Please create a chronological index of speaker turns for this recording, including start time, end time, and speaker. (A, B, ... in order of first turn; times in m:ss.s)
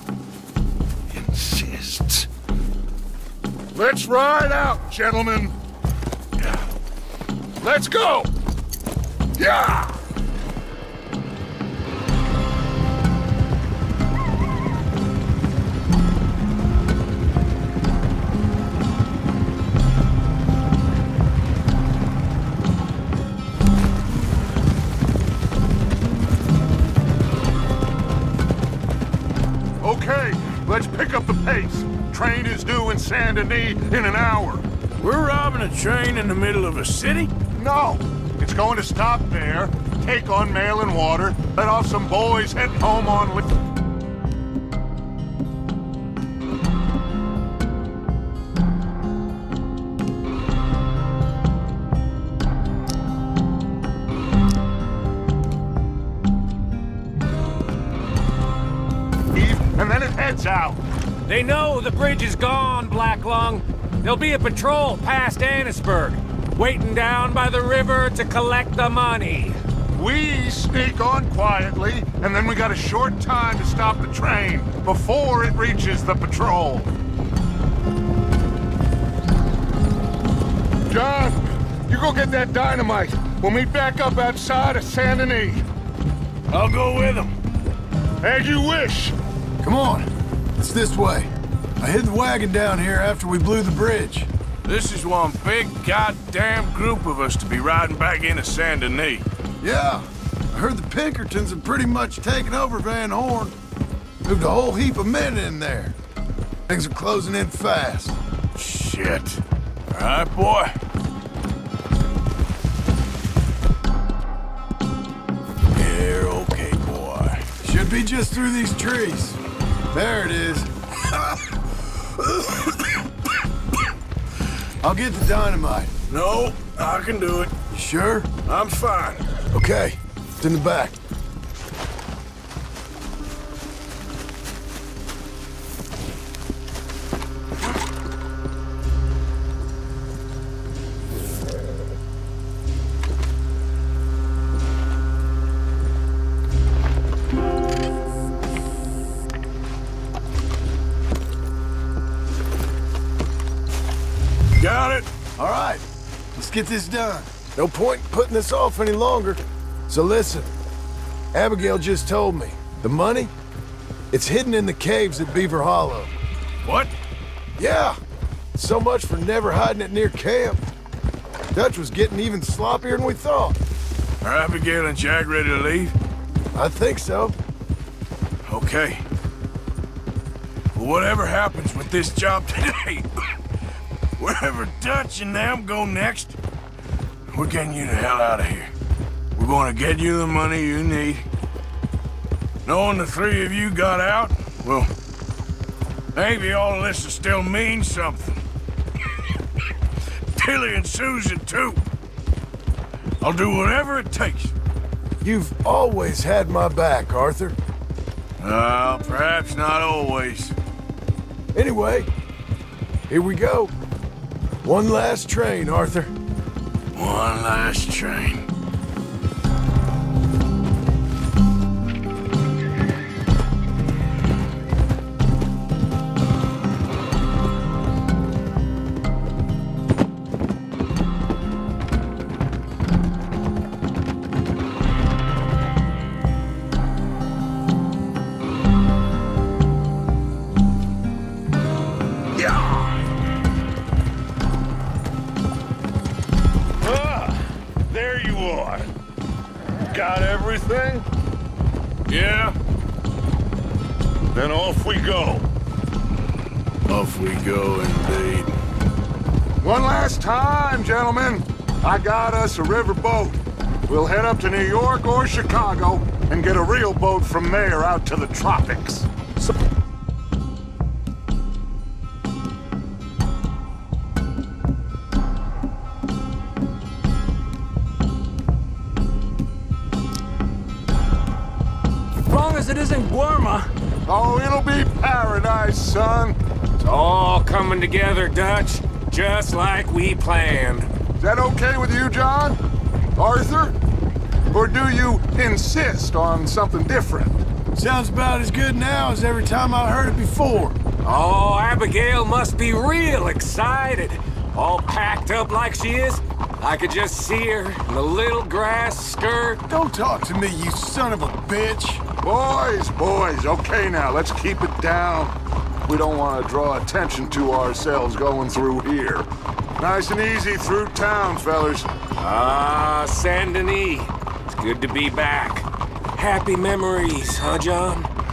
0:01.1-0:02.3 A
0:03.7-0:05.6 A
0:07.6-0:08.3 A
0:09.4-0:10.0 A
0:29.8-0:34.7 A
0:35.0-0:37.3 B
0:37.5-0:43.4 A
0:59.3-1:00.8 A
1:01.2-1:09.6 C
1:09.9-1:16.9 A
1:20.9-1:25.6 A
1:26.5-1:27.4 B
1:28.2-1:29.1 A
1:29.6-1:34.3 D
1:34.6-1:39.2 B
1:39.6-1:43.5 D
1:44.2-1:45.9 D
1:46.7-1:48.2 D
1:48.5-1:50.8 B
1:55.7-1:57.4 B
1:57.6-1:59.4 D
1:59.9-2:00.7 D
2:04.8-2:05.9 D
2:06.1-2:07.5 B
2:07.7-2:08.3 D
2:08.4-2:09.2 B
2:09.5-2:10.9 D
2:34.6-2:35.1 B
2:35.4-2:35.8 D
2:36.4-2:40.5 D
2:41.3-2:43.3 D
2:44.1-2:46.1 D
2:46.6-2:46.9 B
2:47.6-2:48.0 D
2:48.5-2:50.6 D
2:51.5-2:53.6 D
2:54.2-2:55.9 B
2:56.5-2:57.4 D
2:58.5-2:59.0 B
3:00.7-3:03.1 B
3:04.2-3:06.4 B
3:07.3-3:08.7 B
3:09.3-3:11.2 B
3:12.6-3:14.9 B
3:16.1-3:18.4 B
3:20.3-3:21.8 B
3:23.2-3:24.5 B
3:25.2-3:27.6 D
3:28.4-3:30.5 B
3:31.5-3:32.1 D
3:33.1-3:33.7 D
3:34.6-3:36.1 D
3:36.9-3:38.4 B
4:02.3-4:02.9 A
4:06.8-4:08.9 A
4:09.9-4:11.1 A
4:12.1-4:12.6 B
4:14.3-4:15.5 A
4:16.8-4:18.6 B
4:19.6-4:29.1 A
4:42.3-4:43.5 C
4:43.2-4:43.6 D
4:44.0-4:46.4 A
4:46.8-4:50.9 C
4:51.2-4:52.6 A
4:53.2-4:53.8 A
4:54.5-4:57.4 A
4:57.7-5:00.8 D
5:01.0-5:09.6 C
5:09.7-5:12.0 D
5:12.2-5:21.9 A
5:22.2-5:28.1 C